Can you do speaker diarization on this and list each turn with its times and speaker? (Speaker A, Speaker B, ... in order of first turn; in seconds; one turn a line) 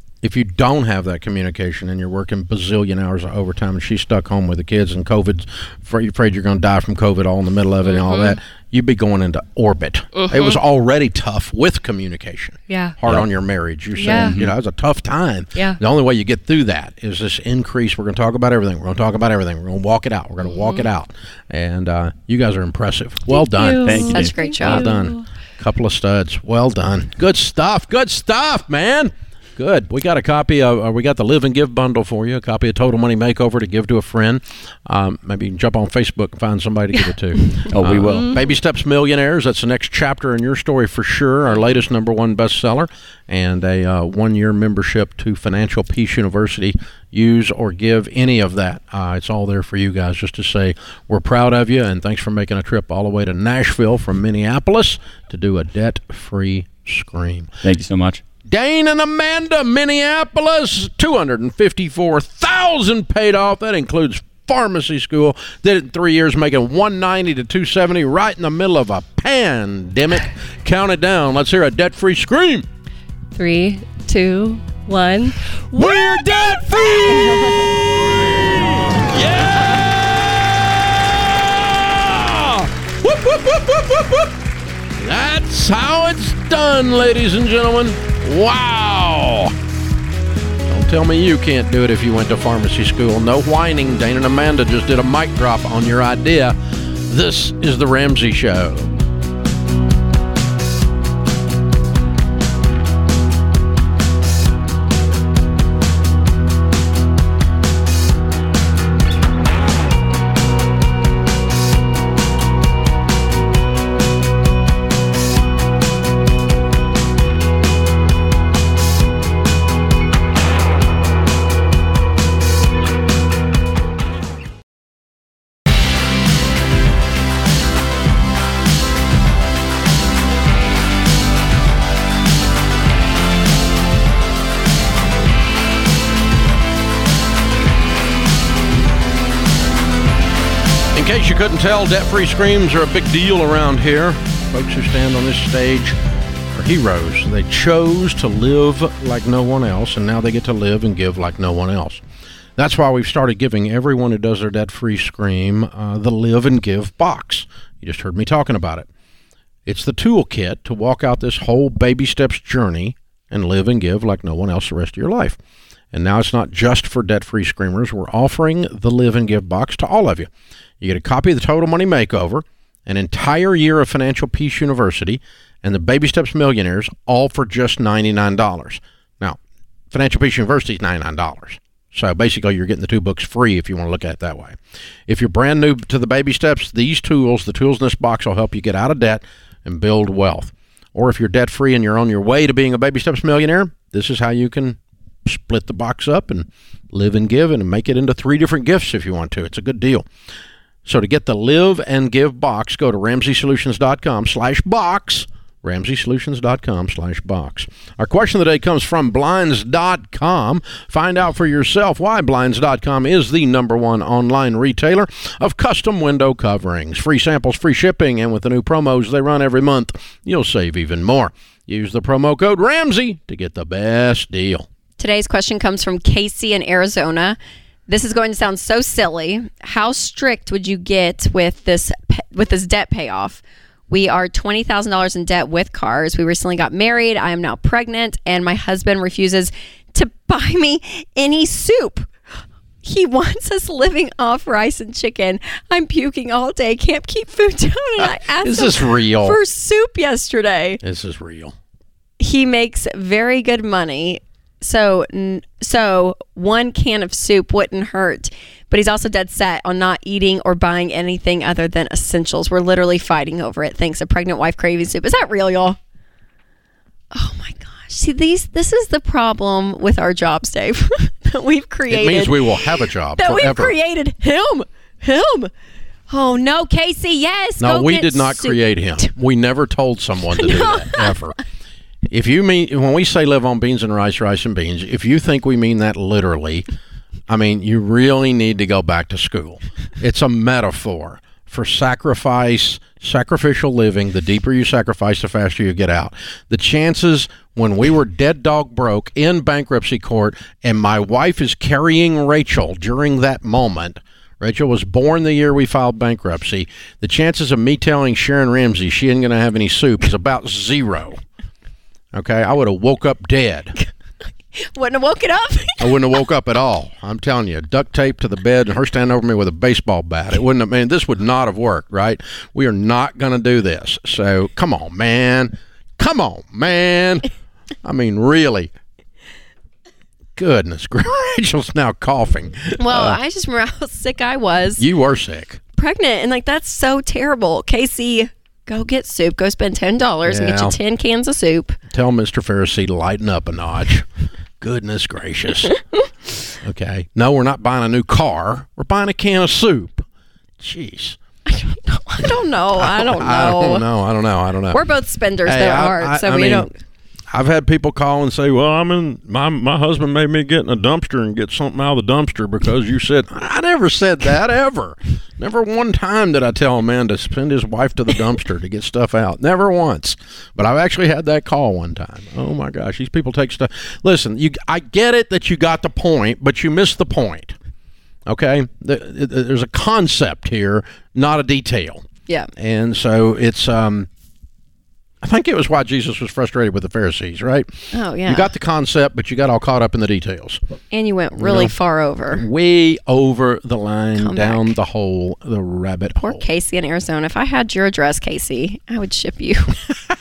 Speaker A: 0.2-57.5
Speaker B: 7.8-8.4
Speaker B: 10.1-10.6
Speaker B: 12.7-13.0
Speaker B: 13.9-14.4
Speaker C: 14.1-14.5
Speaker B: 20.4-20.9
Speaker B: 23.3-25.3
Speaker C: 23.8-24.3
Speaker D: 24.0-24.9
Speaker B: 37.5-38.5
Speaker C: 37.7-38.4
Speaker C: 57.6-58.2
Speaker A: 58.5-72.7
Speaker B: 73.3-77.7
Speaker A: 75.7-84.4
Speaker A: 85.0-89.5
Speaker A: 90.7-96.6
Speaker A: 97.1-99.0
Speaker A: 140.9-146.0
Speaker A: 146.5-152.0
Speaker A: 152.6-158.9
Speaker A: 159.7-165.4
Speaker A: 165.9-170.3
Speaker A: 170.8-179.4
Speaker A: 179.9-200.1
Speaker A: 200.8-224.7
Speaker D: 225.0-242.1
Speaker D: 242.8-250.8
Speaker A: 248.0-249.4
Speaker A: 250.8-251.6
Speaker D: 252.2-265.8
Speaker D: 267.1-275.5
Speaker A: 271.9-273.7
Speaker D: 276.1-278.6
Speaker A: 277.6-281.4
Speaker D: 280.4-281.1
Speaker A: 282.1-286.6
Speaker A: 287.3-311.2
Speaker A: 312.1-313.8
Speaker D: 314.5-316.2
Speaker A: 315.8-327.3
Speaker A: 327.8-328.7
Speaker A: 330.4-333.2
Speaker D: 332.8-334.9
Speaker A: 334.8-335.6
Speaker D: 335.8-341.8
Speaker A: 340.2-340.8
Speaker A: 341.9-344.1
Speaker A: 344.6-345.8
Speaker A: 346.6-350.1
Speaker A: 350.6-351.2
Speaker D: 351.4-353.9
Speaker A: 352.2-354.8
Speaker D: 354.7-356.7
Speaker A: 355.4-356.7
Speaker A: 357.3-377.6
Speaker A: 378.2-384.1
Speaker A: 385.2-390.6
Speaker D: 387.9-388.5
Speaker D: 390.9-392.4
Speaker A: 391.4-391.8
Speaker A: 392.3-396.4
Speaker D: 394.2-394.7
Speaker D: 396.2-399.8